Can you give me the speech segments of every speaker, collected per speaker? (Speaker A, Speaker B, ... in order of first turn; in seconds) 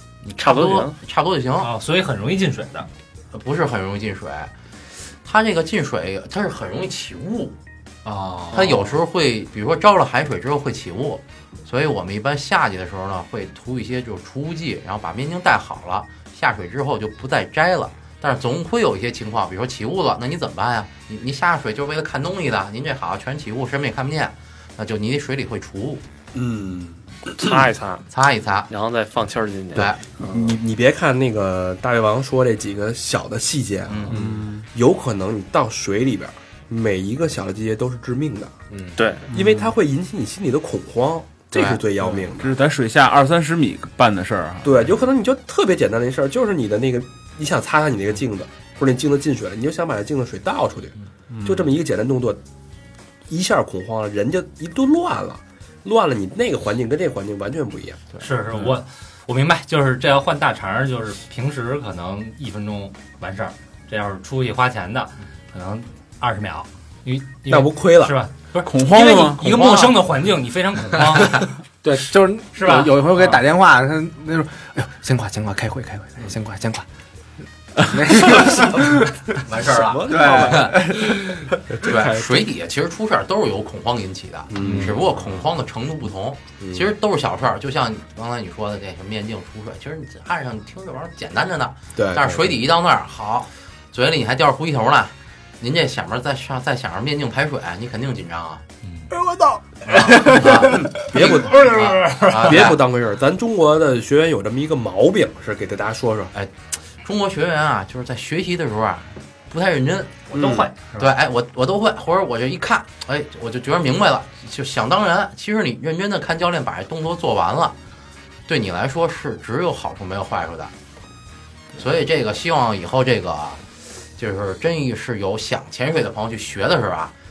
Speaker A: 0.2-1.7, 3.3-4.5, 5.2-7.6, 8.5-26.0, 28.1-28.7, 29.8-30.0, 33.9-34.1, 38.7-39.0, 69.4-70.0, 79.4-80.8, 81.8-98.6, 99.9-100.9, 101.8-102.8, 106.3-110.3, 111.0-117.8, 118.5-120.7, 121.8-123.6, 124.2-127.1
Speaker B: 0.4-1.0, 27.4-28.1, 28.7-30.4, 39.0-39.3
Speaker C: 1.6-2.9, 8.1-8.9, 58.2-71.5, 72.5-73.4, 101.3-102.7, 110.3-111.1
Speaker D: 26.3-27.0, 30.2-38.5, 39.3-42.6, 44.6-52.4, 53.3-58.0, 67.5-68.2, 79.7-82.4, 84.5-85.1, 86.6-86.9, 92.0-92.6, 100.6-106.3, 110.3-110.7
Speaker E: 34.2-34.6, 39.3-39.7, 41.5-44.8, 51.3-51.6, 68.7-69.5
Speaker F: 71.8-76.8, 77.8-79.1, 80.1-81.4, 100.0-100.8